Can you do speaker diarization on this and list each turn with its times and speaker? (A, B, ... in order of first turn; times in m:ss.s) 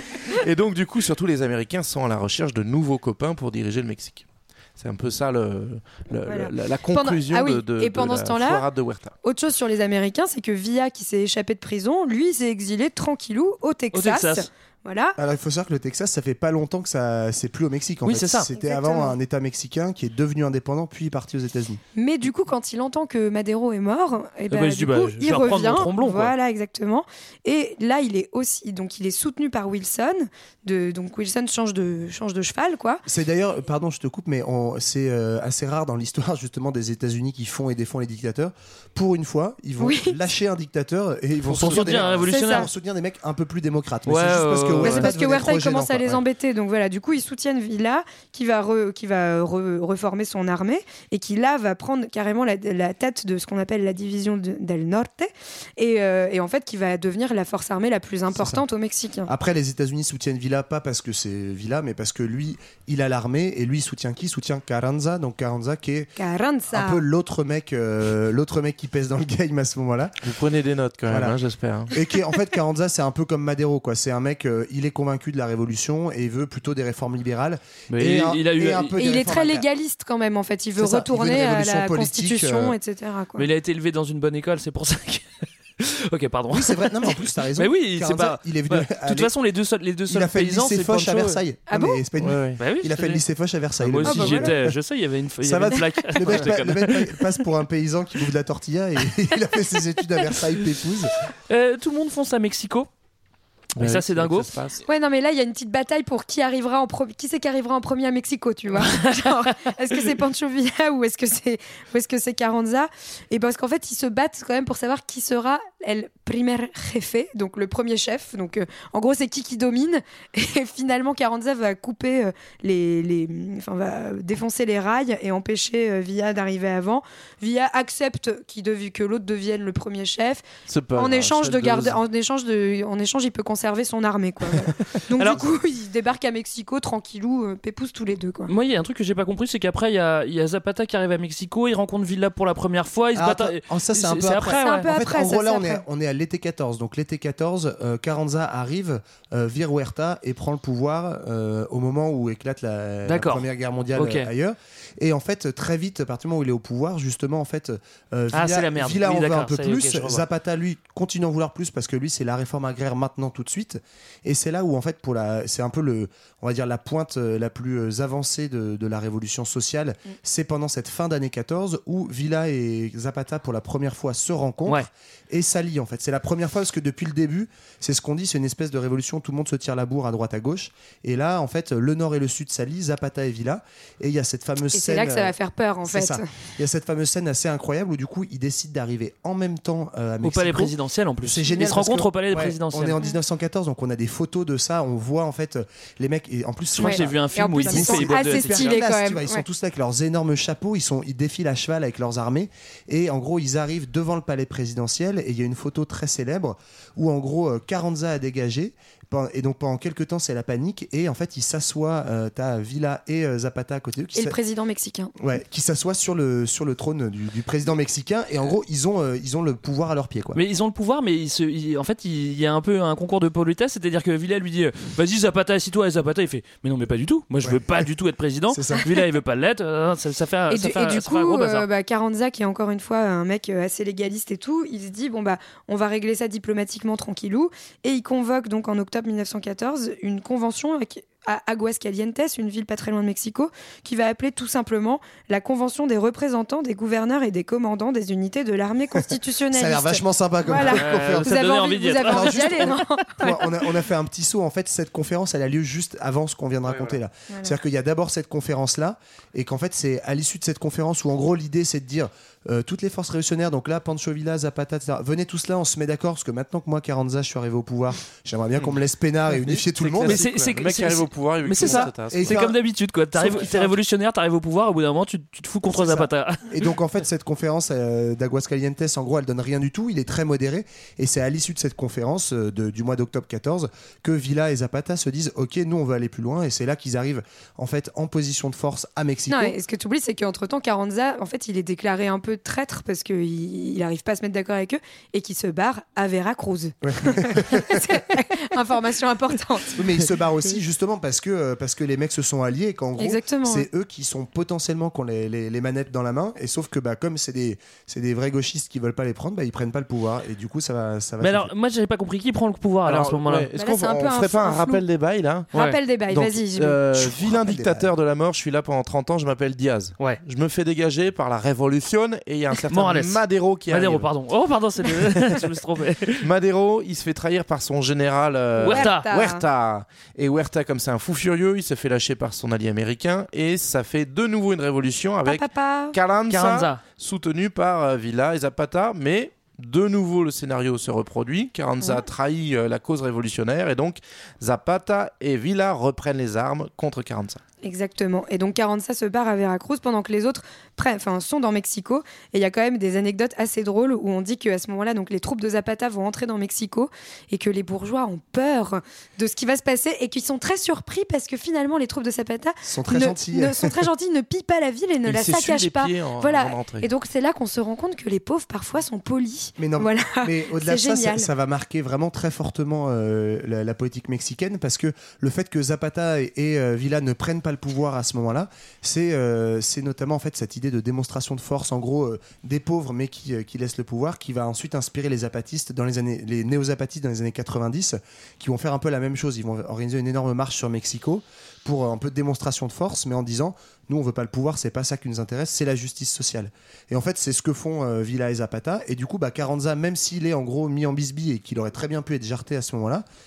0:00.3-0:09.2 A
0:06.2-0:08.6 B
0:09.2-0:15.2 B
0:13.9-0:14.5 C
0:15.2-0:21.8 D
0:18.0-0:18.5 C
0:18.6-0:19.1 B
0:21.9-0:33.0 B
0:24.5-0:26.3 C
0:33.0-0:46.2 D
0:39.8-0:40.2 B
0:41.5-0:42.7 C
0:42.3-0:42.7 B
0:44.1-0:45.1 C
0:44.8-0:59.3 B
0:58.3-0:58.6 D
0:59.3-1:06.1 D
1:06.2-1:07.0 B
1:06.7-1:10.1 D
1:10.2-1:11.9 A
1:11.1-1:11.4 D
1:11.9-1:19.6 D
1:17.9-1:18.9 C
1:18.9-1:23.5 B
1:20.8-1:22.8 D
1:23.4-1:31.4 C
1:26.5-1:29.3 D
1:30.1-1:34.8 D
1:31.7-1:32.0 B
1:32.2-1:32.6 A
1:32.6-1:33.2 C
1:33.8-1:37.2 C
1:34.0-1:34.5 B
1:35.4-1:41.1 D
1:41.5-1:42.9 C
1:43.8-1:44.5 C
1:43.8-1:44.8 A
1:44.8-2:10.4 B
1:49.0-1:49.7 C
2:10.7-2:12.0 A
2:11.0-2:18.5 B
2:18.5-2:24.9 C
2:23.1-3:05.3 D
2:24.5-2:25.8 B
2:33.0-2:34.3 C
2:38.3-2:40.2 C
3:04.7-3:06.3 B
3:05.8-3:34.4 D
3:10.2-3:13.0 C
3:16.8-3:18.8 C
3:16.8-3:19.4 B
3:34.1-3:35.1 B
3:35.2-3:40.4 D
3:40.3-3:51.6 C
3:47.4-3:47.8 D
3:48.5-3:48.8 D
3:50.5-4:13.4 B
4:09.5-4:30.2 D
4:10.7-4:13.0 C
4:29.4-4:32.3 A
4:30.0-4:36.5 C
4:31.6-4:32.6 D
4:33.1-4:33.7 D
4:35.7-4:49.6 D
4:49.3-4:59.8 B
4:56.8-4:58.0 D
4:59.8-5:11.5 D
5:03.0-5:03.6 B
5:11.2-5:13.5 C
5:12.8-5:15.5 A
5:13.6-5:14.8 B
5:15.5-5:16.8 B
5:16.1-5:24.1 A
5:16.9-5:17.9 D
5:22.7-5:26.2 C
5:26.2-5:47.4 A
5:28.6-5:29.0 C
5:28.6-5:29.4 B
5:35.2-5:36.0 B
5:36.3-5:36.8 C
5:41.8-5:42.0 B
5:47.6-6:11.3 B
6:02.6-6:03.8 D
6:05.0-6:06.9 A
6:09.6-6:43.0 D